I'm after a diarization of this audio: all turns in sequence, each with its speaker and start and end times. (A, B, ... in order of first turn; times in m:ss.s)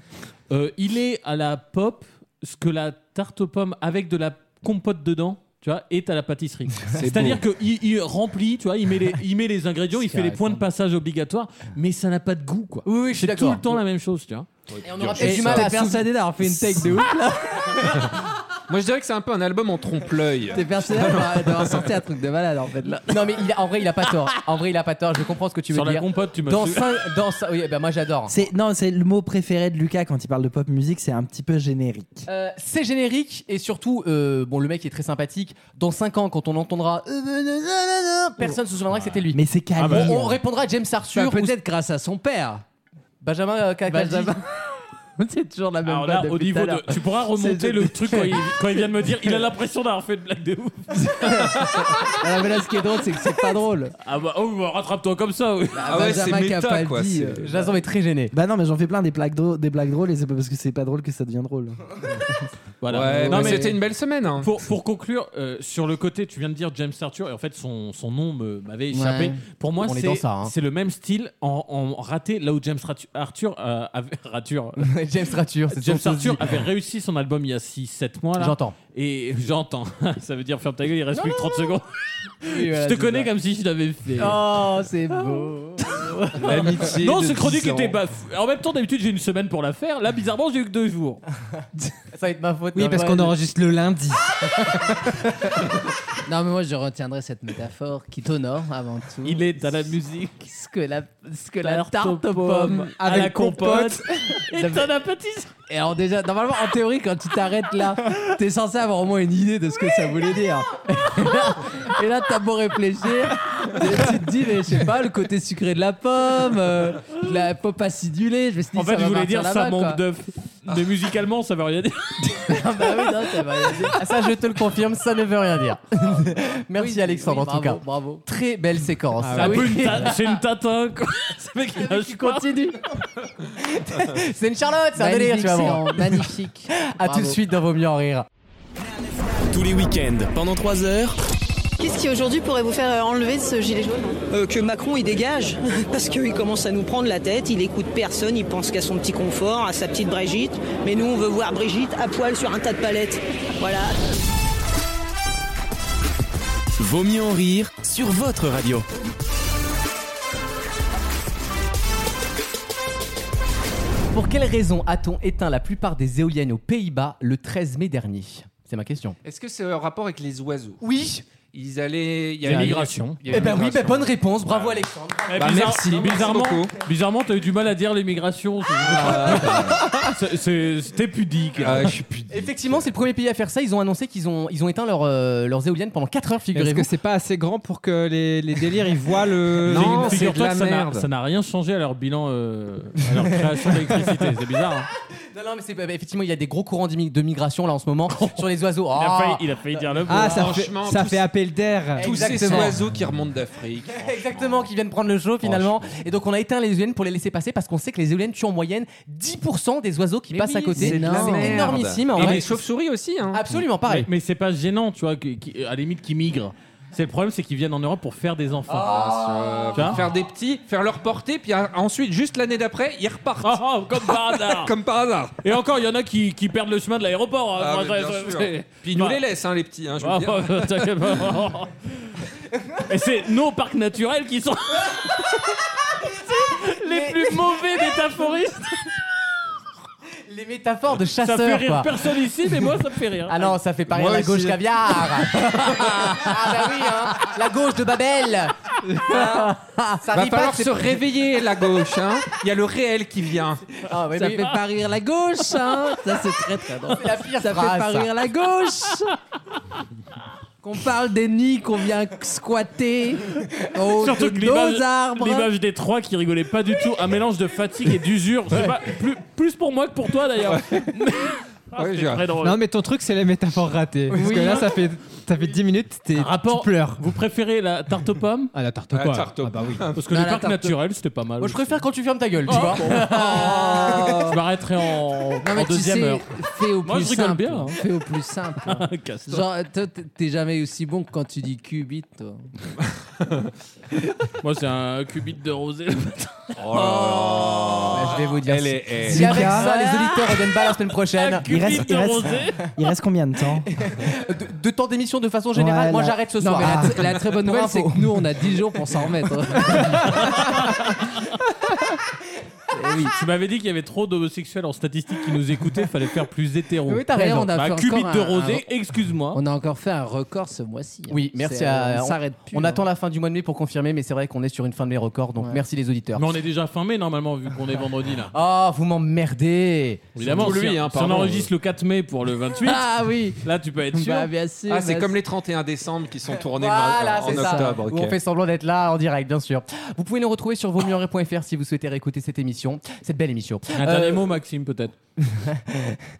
0:00.5-0:14.5 A
0:07.0-0:07.4 B
0:09.9-0:10.6 C
0:12.8-0:13.6 D
0:14.7-0:15.4 B
0:14.8-0:16.0 D
0:15.2-0:17.9 C
0:18.7-0:21.8 B
0:20.5-0:23.3 C
0:23.1-0:28.4 D
0:25.7-0:26.9 A
0:28.3-0:32.3 E
0:32.3-0:41.6 D
0:39.3-0:40.4 E
0:39.8-0:40.2 A
0:41.1-0:42.6 C
0:43.2-0:44.4 D
0:43.9-0:44.4 C
0:45.2-0:48.8 C
0:45.8-0:52.1 A
0:51.4-0:53.9 C
0:54.0-0:56.2 A
0:55.7-0:57.7 C
0:55.8-0:57.6 B
0:57.4-0:58.3 D
0:58.3-1:01.8 E
1:02.8-1:03.8 A
1:02.9-1:04.5 B
1:03.1-1:03.8 C
1:04.4-1:15.0 A
1:08.9-1:09.4 C
1:09.8-1:10.5 D
1:14.8-1:16.6 D
1:15.7-1:24.4 A
1:18.4-1:18.7 D
1:22.4-1:23.2 C
1:24.2-1:26.7 C
1:26.4-1:28.0 B
1:26.4-1:31.2 A
1:32.1-1:33.4 D
1:32.7-1:34.4 F
1:36.2-1:39.9 C
1:39.2-1:40.4 A
1:40.4-1:44.0 C
1:41.6-1:45.5 A
1:43.2-1:43.9 F
1:44.5-1:44.8 C
1:45.7-2:00.0 C
1:58.7-2:03.0 A
2:02.5-2:04.0 C
2:03.9-2:09.8 D
2:06.8-2:08.2 C
2:09.2-2:10.3 C
2:09.4-2:12.7 A
2:11.8-2:12.8 C
2:13.6-2:16.3 D
2:15.0-2:17.4 C
2:16.8-2:18.2 D
2:19.4-2:21.2 G
2:21.8-2:34.0 H
2:36.8-2:38.9 G
2:44.1-2:49.2 D
2:49.2-2:50.8 B
2:50.8-2:51.2 D
2:51.5-2:56.8 B
2:52.4-2:53.5 A
2:52.5-2:56.3 D
2:55.3-3:02.0 A
2:58.8-3:00.1 B
3:01.6-3:02.9 B
3:02.3-3:06.9 D
3:06.5-3:10.2 F
3:09.3-3:11.0 B
3:09.7-3:14.9 A
3:13.6-3:13.9 D
3:15.3-3:20.5 D
3:18.1-3:20.6 A
3:20.1-3:22.7 F
3:20.2-3:21.3 B
3:22.0-3:22.8 D
3:22.0-3:24.7 B
3:22.4-3:22.6 C
3:23.9-3:32.5 D
3:25.4-3:25.9 B
3:30.3-3:31.8 C
3:30.8-3:31.0 F
3:30.8-3:33.5 B
3:32.2-3:32.4 A
3:33.3-3:34.1 D
3:33.9-3:40.1 A
3:38.7-3:45.4 B
3:43.4-3:44.8 A
3:45.4-3:49.3 A
3:47.6-3:50.8 B
3:50.0-3:52.1 A
3:52.8-3:58.9 A
3:56.9-3:57.2 D
4:00.3-4:01.9 D
4:01.2-4:03.6 A
4:03.3-4:11.0 D
4:03.9-4:04.6 B
4:05.7-4:06.3 A
4:09.1-4:10.0 C
4:10.1-4:13.6 B
4:13.9-4:14.6 D
4:14.1-4:19.1 C
4:16.9-4:18.1 D
4:20.6-4:25.5 C
4:23.9-4:32.6 A
4:30.4-4:30.9 B
4:31.8-4:32.3 B
4:32.4-4:37.0 F
4:34.1-4:34.7 D
4:36.1-4:38.5 A
4:38.5-4:39.8 F
4:38.9-4:40.0 B
4:39.9-4:41.8 A
4:40.1-4:40.7 C
4:41.4-4:44.3 D
4:42.4-4:47.8 A
4:42.8-4:44.3 C
4:45.4-4:52.5 C
4:48.6-4:49.5 A
4:54.4-4:57.9 A
4:56.6-4:59.5 B
4:57.9-5:01.5 D
4:59.0-4:59.7 E
4:59.5-5:02.6 A
5:01.4-5:03.7 E
5:03.8-5:08.3 D
5:05.5-5:07.0 E
5:06.4-5:10.3 C
5:09.9-5:11.2 A
5:12.7-5:13.1 C
5:13.0-5:19.4 A
5:16.9-5:18.6 C
5:16.9-5:17.5 D
5:19.3-5:22.8 C
5:21.1-5:26.2 D
5:26.1-5:28.3 A
5:28.3-5:30.2 D
5:30.2-5:34.3 A
5:30.2-5:31.5 B
5:32.6-5:35.2 C
5:34.7-5:38.2 B
5:36.5-5:44.2 D
5:37.3-5:37.7 C
5:43.7-5:44.9 A
5:45.4-5:45.9 D